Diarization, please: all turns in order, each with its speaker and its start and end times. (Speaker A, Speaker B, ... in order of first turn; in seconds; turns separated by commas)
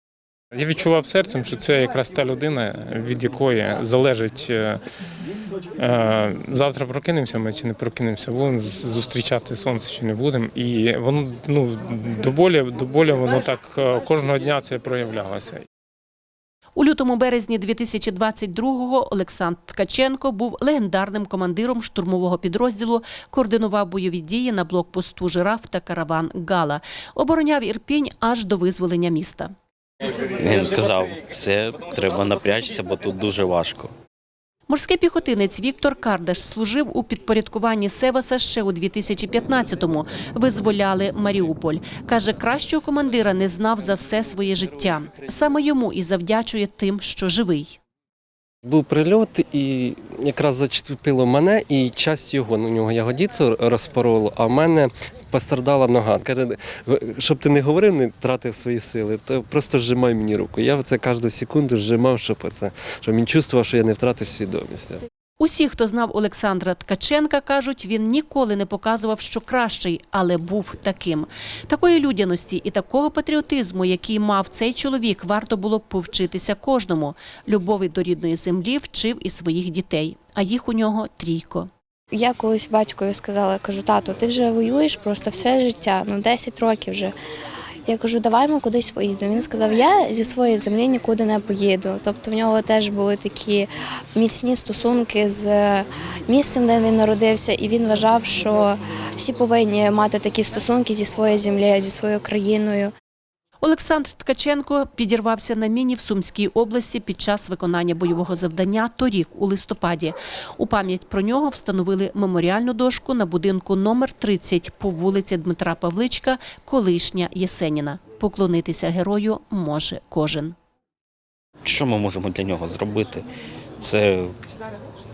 Speaker A: 0.5-4.8, Speaker A: 5.8-15.6, Speaker B: 16.8-29.5, Speaker C: 30.4-33.9, Speaker B: 34.7-47.8, Speaker D: 48.6-65.0, Speaker B: 65.4-81.7, Speaker E: 82.1-87.1, Speaker E: 87.8-102.9, Speaker B: 103.6-120.5, Speaker C: 121.6-123.2, Speaker C: 123.8-124.3